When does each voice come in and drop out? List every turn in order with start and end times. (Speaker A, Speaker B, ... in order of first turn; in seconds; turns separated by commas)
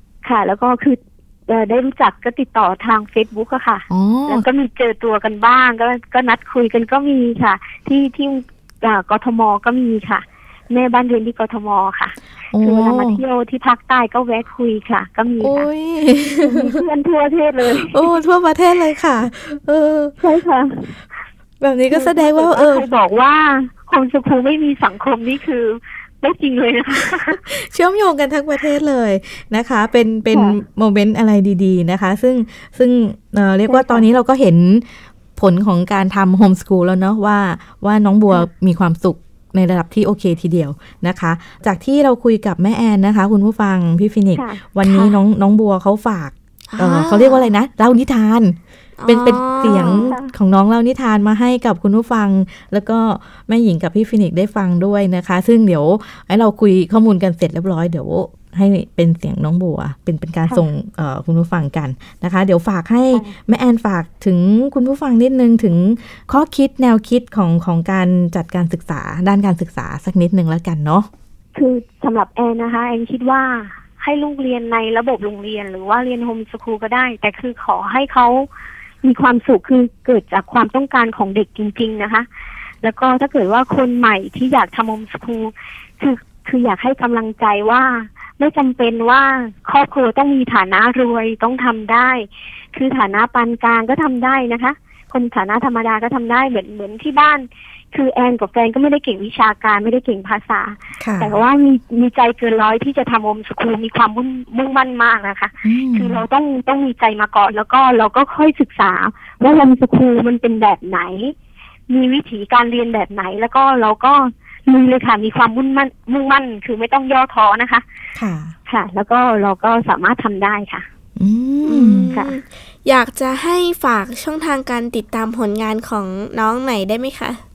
Speaker A: 0.2-15.7, Speaker B: 3.9-4.5, Speaker B: 12.5-13.2, Speaker B: 15.4-16.8, Speaker A: 16.4-18.1, Speaker B: 17.8-20.1, Speaker A: 20.2-20.9, Speaker B: 21.6-22.9, Speaker A: 21.9-27.4, Speaker B: 27.3-71.1, Speaker A: 30.3-30.6, Speaker A: 33.7-34.0, Speaker A: 44.3-45.2, Speaker C: 46.7-47.5, Speaker C: 49.0-50.1, Speaker A: 49.6-50.3, Speaker A: 71.5-78.5, Speaker A: 79.0-82.2, Speaker A: 82.8-111.3, Speaker B: 101.0-101.3, Speaker B: 105.6-106.2, Speaker A: 111.9-117.8, Speaker B: 118.2-118.5, Speaker A: 118.7-120.9, Speaker B: 121.2-122.1, Speaker C: 121.6-127.4